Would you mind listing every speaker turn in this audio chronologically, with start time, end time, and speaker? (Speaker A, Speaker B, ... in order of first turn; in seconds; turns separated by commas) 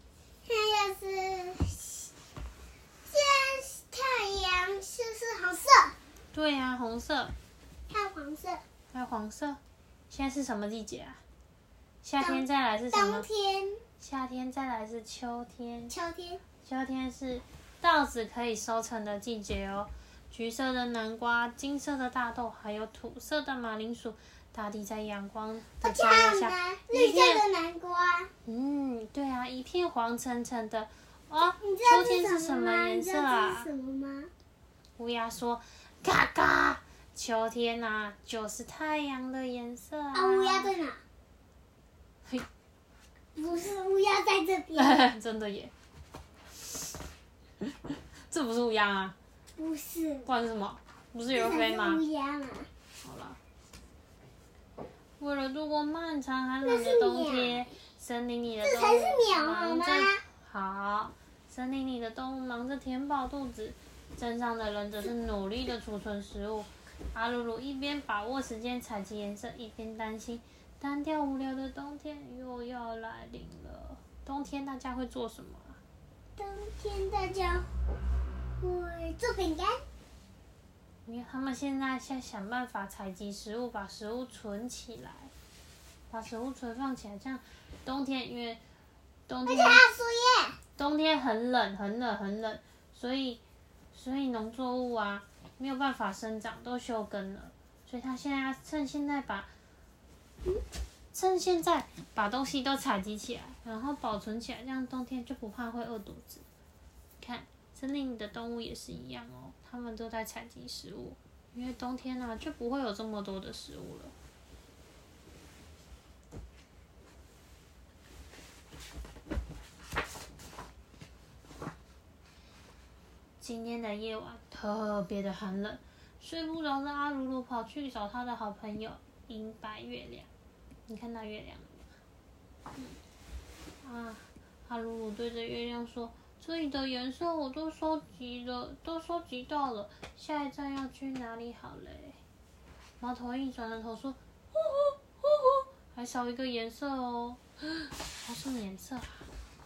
Speaker A: 0.4-2.1, Speaker A: 3.0-6.0, Speaker B: 6.3-7.3, Speaker A: 7.9-8.6, Speaker B: 8.9-11.2, Speaker B: 12.0-13.2, Speaker A: 12.2-13.8, Speaker B: 14.0-15.9, Speaker A: 15.9-16.4, Speaker B: 16.6-27.4, Speaker A: 25.8-28.3, Speaker B: 28.4-33.7, Speaker A: 31.6-34.3, Speaker B: 35.0-40.7, Speaker A: 40.1-41.0, Speaker A: 43.4-45.0, Speaker B: 44.7-45.7, Speaker B: 48.1-49.1, Speaker A: 49.6-50.3, Speaker B: 50.2-52.0, Speaker A: 51.3-52.7, Speaker B: 53.0-53.4, Speaker B: 55.2-75.8, Speaker A: 56.6-57.7, Speaker A: 58.6-60.2, Speaker A: 76.3-77.7, Speaker A: 78.6-79.8, Speaker B: 81.0-85.3, Speaker B: 86.1-88.6, Speaker B: 89.3-89.8, Speaker A: 89.5-90.6, Speaker B: 90.8-93.4, Speaker B: 93.9-99.5, Speaker B: 101.1-106.5, Speaker B: 107.2-114.1, Speaker B: 123.4-130.3, Speaker B: 130.9-131.9, Speaker B: 133.8-142.2, Speaker B: 143.0-149.3